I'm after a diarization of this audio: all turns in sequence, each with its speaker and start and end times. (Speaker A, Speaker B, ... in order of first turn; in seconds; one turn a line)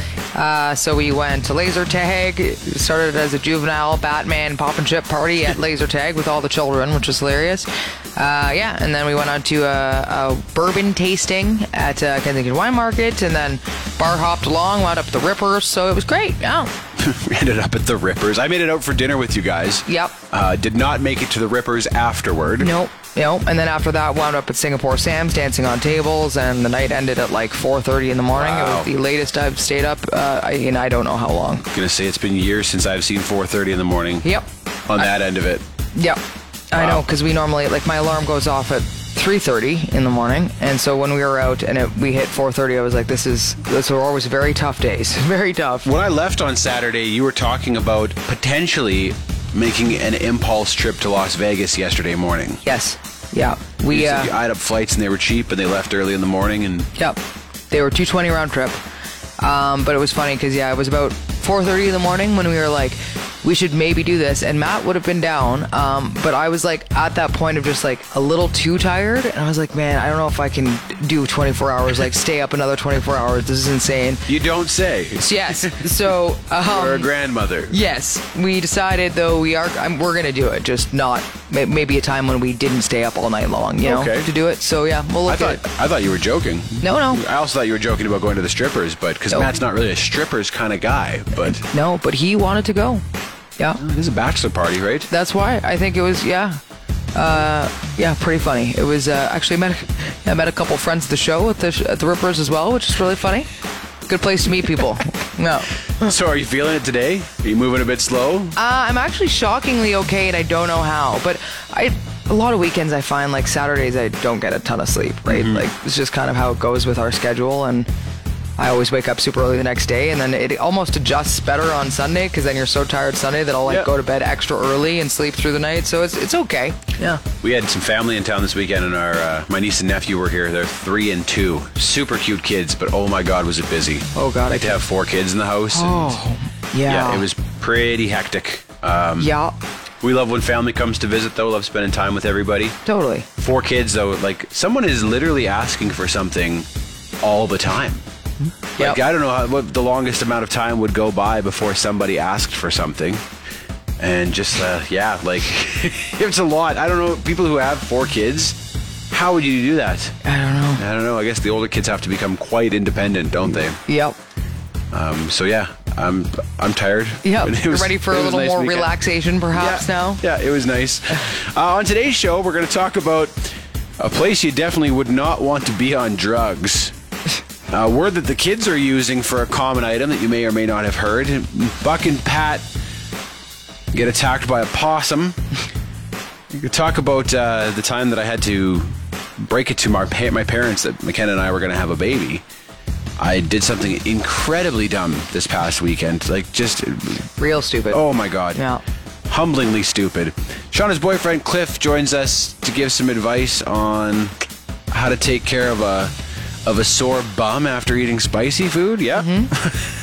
Speaker A: 0.3-16.7
Speaker B: 17.0-22.7
Speaker A: 19.9-20.1
Speaker A: 22.6-31.6
Speaker B: 28.3-28.9
Speaker B: 31.7-34.2
Speaker B: 34.9-35.6
Speaker A: 35.9-45.9
Speaker B: 36.7-37.0
Speaker B: 45.8-52.6
Speaker A: 52.6-54.3
Speaker B: 53.9-56.9
Speaker A: 57.7-58.8
Speaker A: 59.4-74.3
Speaker B: 74.3-76.1
Speaker A: 75.2-77.1
Speaker B: 76.6-77.8
Speaker A: 77.7-85.6
Speaker B: 83.8-84.3
Speaker B: 85.2-91.6
Speaker A: 86.8-87.2
Speaker A: 89.3-89.6
Speaker A: 91.4-93.0
Speaker B: 93.8-95.1
Speaker A: 95.1-96.6
Speaker A: 97.1-103.5
Speaker A: 104.1-106.1
Speaker B: 106.0-108.5
Speaker A: 108.6-117.9
Speaker B: 115.3-115.6
Speaker A: 118.6-127.2
Speaker B: 127.4-136.2
Speaker A: 134.1-134.8
Speaker A: 135.7-137.2
Speaker B: 136.8-139.3
Speaker A: 139.2-139.5
Speaker B: 140.0-142.8
Speaker A: 142.8-143.3
Speaker B: 143.4-146.7
Speaker B: 147.2-148.0
Speaker B: 148.8-153.2
Speaker B: 154.0-158.6
Speaker B: 159.1-160.1
Speaker A: 160.2-160.8
Speaker B: 160.8-163.8
Speaker A: 163.9-164.2
Speaker B: 164.9-168.9
Speaker A: 167.2-170.2
Speaker B: 169.5-176.9
Speaker B: 177.7-182.7
Speaker B: 183.9-185.4
Speaker B: 186.5-192.4
Speaker B: 193.2-197.3
Speaker A: 197.4-198.0
Speaker B: 197.9-198.6
Speaker A: 198.5-198.8
Speaker B: 199.3-204.3
Speaker B: 204.9-206.1
Speaker B: 206.6-209.9
Speaker A: 209.1-209.5